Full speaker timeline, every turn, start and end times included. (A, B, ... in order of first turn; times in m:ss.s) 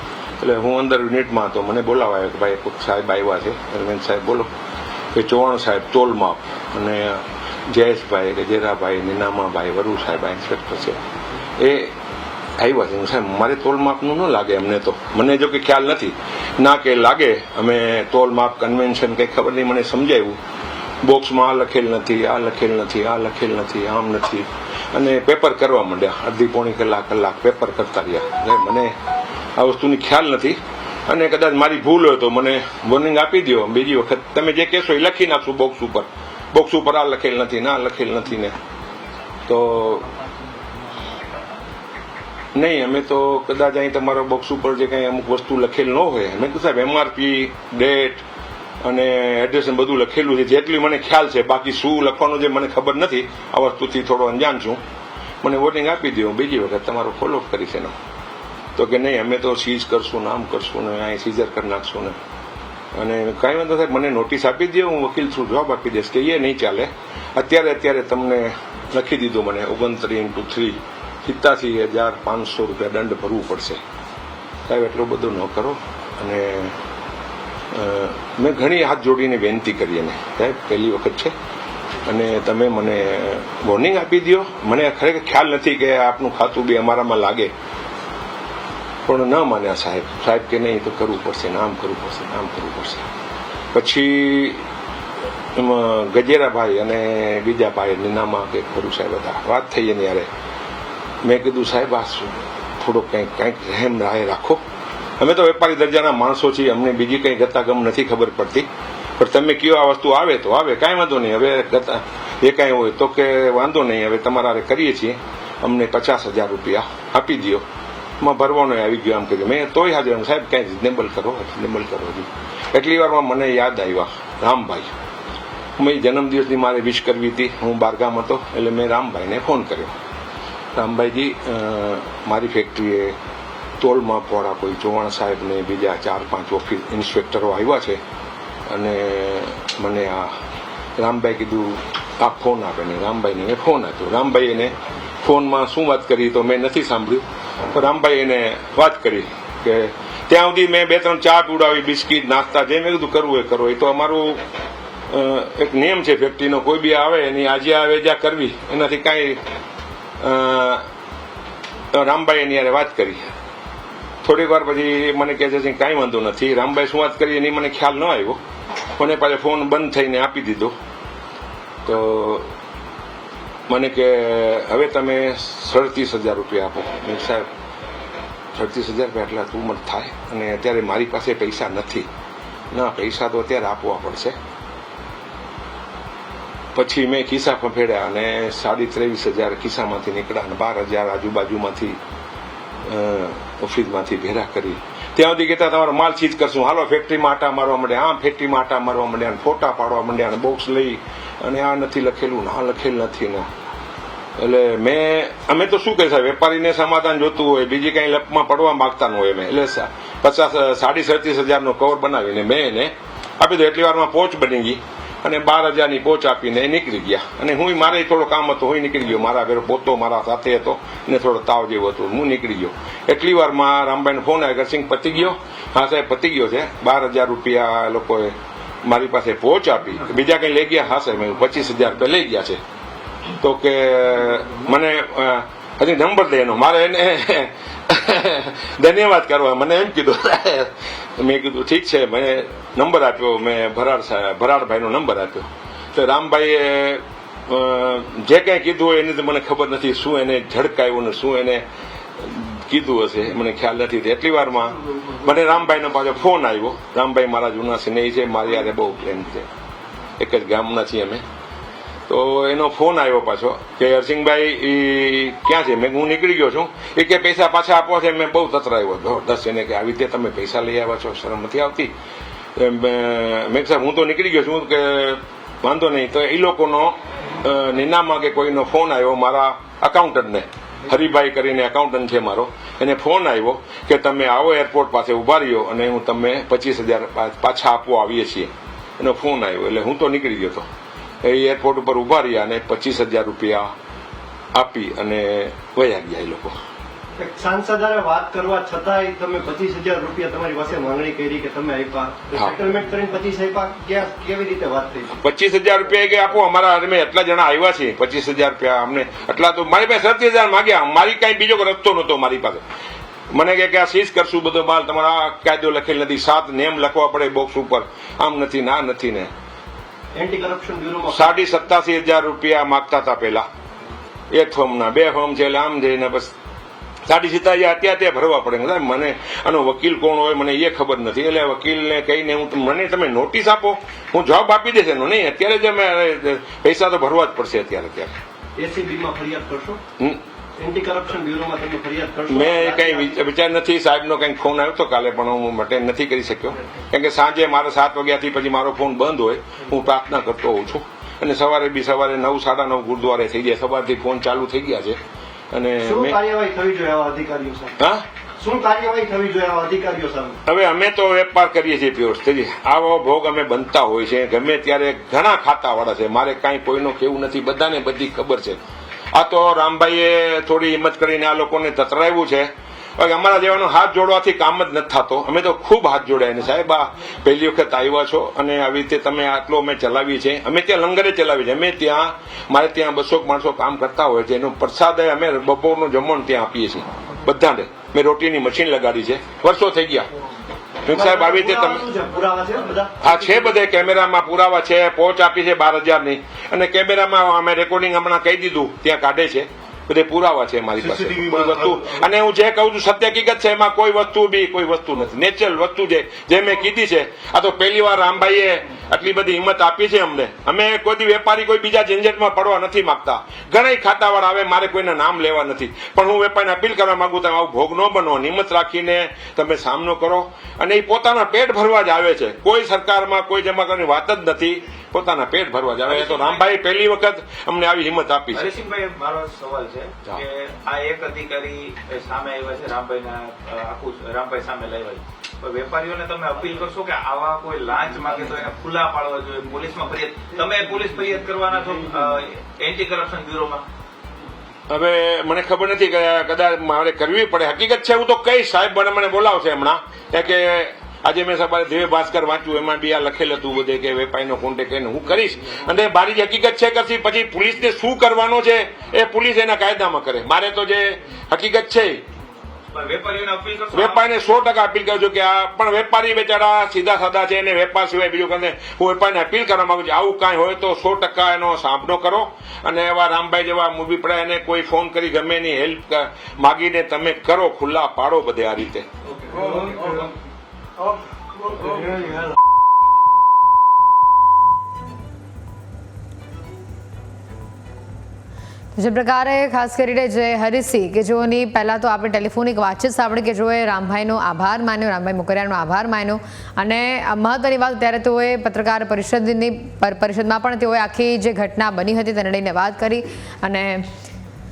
0:00.4-0:04.5 A
0:05.1-0:11.0 A
0:11.6-0:11.9 A
0:12.6-0:20.4 A
0:21.0-0:28.9 A
0:29.6-0:38.5 A
0:39.5-0:40.1 A
0:42.5-0:48.2 A
0:48.8-0:54.8 A
0:55.4-0:57.9 A
0:58.8-1:02.2 A
1:02.9-1:13.8 A
1:14.7-1:16.7 A
1:17.7-1:21.3 A
1:22.0-1:27.5 A
1:29.0-1:33.0 A
1:33.7-1:34.6 A
1:35.6-1:40.3 A
1:41.2-1:44.6 A
1:45.2-1:48.7 A
1:49.2-1:57.6 A
1:58.2-2:04.9 A
2:05.8-2:09.9 A
2:10.7-2:13.2 A
2:13.8-2:18.0 A
2:18.7-2:20.3 A
2:21.0-2:34.4 A
2:35.1-2:39.4 A
2:40.2-2:40.8 A
2:41.9-2:43.3 A
2:44.2-2:48.4 A
2:49.0-2:50.7 A
2:51.8-2:52.5 A
2:53.7-2:57.5 A
2:58.5-3:02.1 A
3:02.7-3:04.4 A
3:06.7-3:12.0 A
3:12.8-3:23.5 A
3:24.4-3:52.6 A
3:53.4-4:11.6 A
4:12.2-4:19.5 A
4:20.2-4:21.2 A
4:22.1-4:31.9 A
4:32.6-4:50.6 A
4:51.2-4:53.7 A
4:54.5-4:56.5 A
4:57.2-5:05.2 B
5:02.3-5:02.6 A
5:05.2-5:12.6 A
5:13.3-5:19.3 A
5:20.1-5:21.4 B
5:21.1-5:23.5 A
5:24.3-5:26.3 A
5:27.0-5:38.1 A
5:38.6-5:39.8 B
5:40.6-5:43.2 B
5:42.3-5:55.0 A
5:55.5-5:56.2 A
5:55.8-5:57.7 B
5:57.8-5:58.0 A
5:58.4-6:00.4 B
6:00.4-6:08.6 A
6:09.1-6:30.1 A
6:30.8-6:31.9 A
6:30.9-6:33.4 B
6:33.0-7:08.5 A
6:40.8-6:41.5 B
7:05.9-7:06.5 C
7:08.3-7:23.6 C
7:24.7-7:42.0 A
7:42.7-7:44.0 C
7:43.7-7:58.8 A
7:59.3-7:59.9 B
8:01.5-8:02.1 B
8:08.7-8:23.9 D